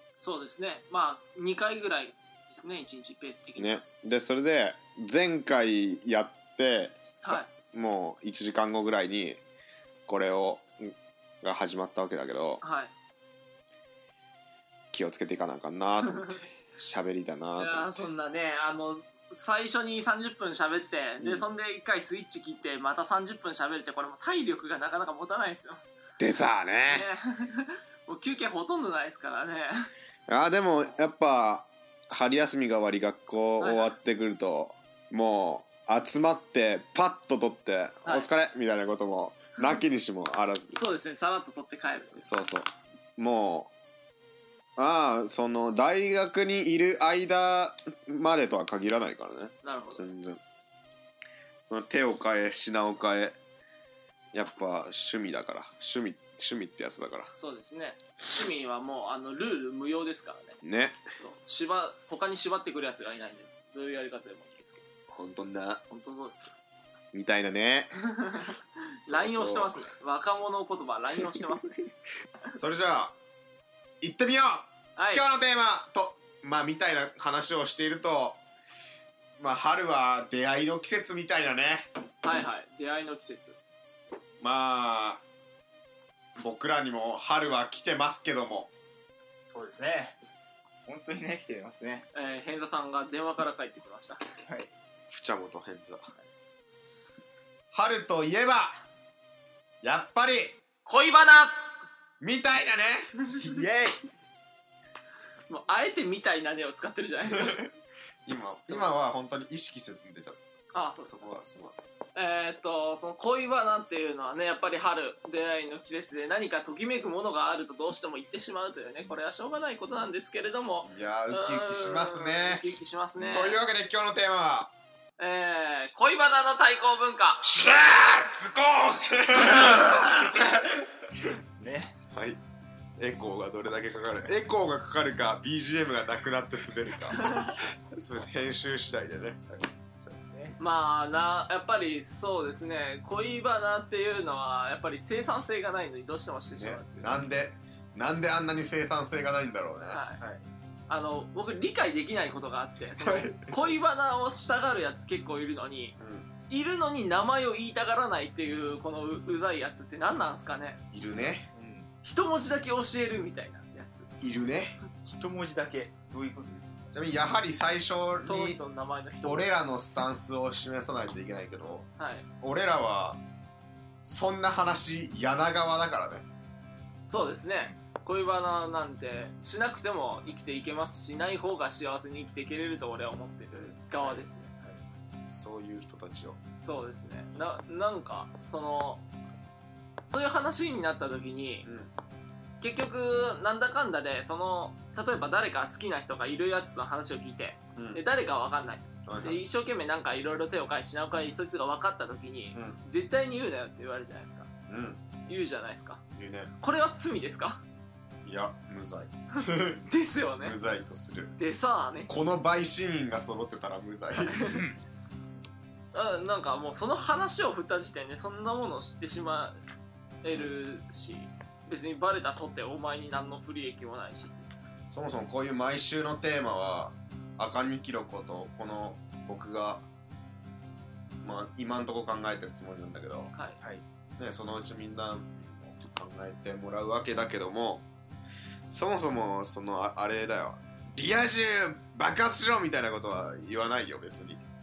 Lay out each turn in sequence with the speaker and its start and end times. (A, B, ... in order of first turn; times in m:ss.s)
0:00.2-0:03.8 A
0:03.6-0:09.4 B
0:07.2-0:07.5 A
0:10.1-0:12.6 B
0:12.6-0:12.9 A
0:14.9-0:18.1 B
0:17.6-0:25.8 A
0:21.2-0:21.4 B
0:26.2-0:27.0 B
0:26.9-0:29.9 A
0:30.3-0:40.8 B
0:33.6-0:33.9 A
0:40.7-0:42.3 A
0:42.2-0:43.7 B
0:44.8-0:50.4 B
0:49.6-0:50.1 A
0:51.6-0:53.4 B
0:54.3-0:57.3 B
0:57.3-1:00.6 A
1:00.6-1:01.0 B
1:01.2-1:04.8 A
1:05.1-1:05.8 B
1:05.9-1:06.5 A
1:07.1-1:08.0 B
1:08.0-1:11.8 A
1:09.0-1:09.9 B
1:12.5-1:13.1 B
1:14.0-1:18.4 B
1:15.0-1:15.2 A
1:19.4-1:21.9 B
1:22.2-1:23.6 A
1:24.4-1:25.2 B
1:26.4-1:28.7 B
1:29.5-1:30.2 C
1:30.8-1:32.1 C
1:32.1-1:34.2 A
1:34.4-1:34.7 C
1:35.1-1:36.1 B
1:37.7-1:38.7 B
1:39.8-1:40.6 B
1:40.8-1:41.7 A
1:42.2-1:43.2 B
1:43.4-1:44.0 C
1:45.5-1:47.6 A
1:47.3-1:47.6 B
1:48.2-1:50.4 B
1:50.7-1:51.2 A
1:51.0-1:51.8 B
1:52.1-2:03.6 A
2:00.8-2:02.6 B
2:03.2-2:04.7 B
2:05.2-2:07.4 A
2:07.4-2:10.4 B
2:09.7-2:10.0 A
2:11.5-2:12.0 C
2:12.1-2:12.4 B
2:13.0-2:19.6 B
2:20.0-2:20.6 C
2:20.6-2:27.2 A
2:26.6-2:30.0 B
2:29.9-2:30.2 A
2:30.2-2:30.4 C
2:30.9-2:36.0 A
2:33.0-2:33.6 B
2:36.0-2:36.3 B
2:36.5-2:40.8 A
2:40.9-2:41.5 B
2:41.5-2:41.9 C
2:42.0-2:44.1 A
2:44.2-2:44.8 B
2:45.0-2:46.6 C
2:46.9-2:48.6 B
2:48.2-2:49.5 A
2:49.2-2:51.9 B
2:52.0-2:52.2 A
2:52.4-2:53.2 B
2:54.0-2:56.2 B
2:57.1-3:04.4 A
3:04.0-3:04.8 C
3:05.3-3:06.4 B
3:06.6-3:09.0 A
3:10.1-3:11.7 A
3:11.6-3:11.9 B
3:12.6-3:24.5 A
3:17.7-3:18.0 B
3:19.0-3:19.4 B
3:24.7-3:25.0 B
3:25.2-3:26.0 A
3:26.1-3:26.5 B
3:26.6-3:27.6 A
3:28.2-3:29.8 B
3:29.9-3:30.6 A
3:30.4-3:31.3 B
3:31.4-3:32.1 A
3:32.1-3:34.5 B
3:34.2-3:34.6 A
3:34.5-3:34.8 C
3:35.9-3:39.6 A
3:40.2-3:44.5 A
3:44.9-3:49.8 B
3:51.2-3:53.3 B
3:54.2-3:57.8 B
3:58.7-4:04.4 B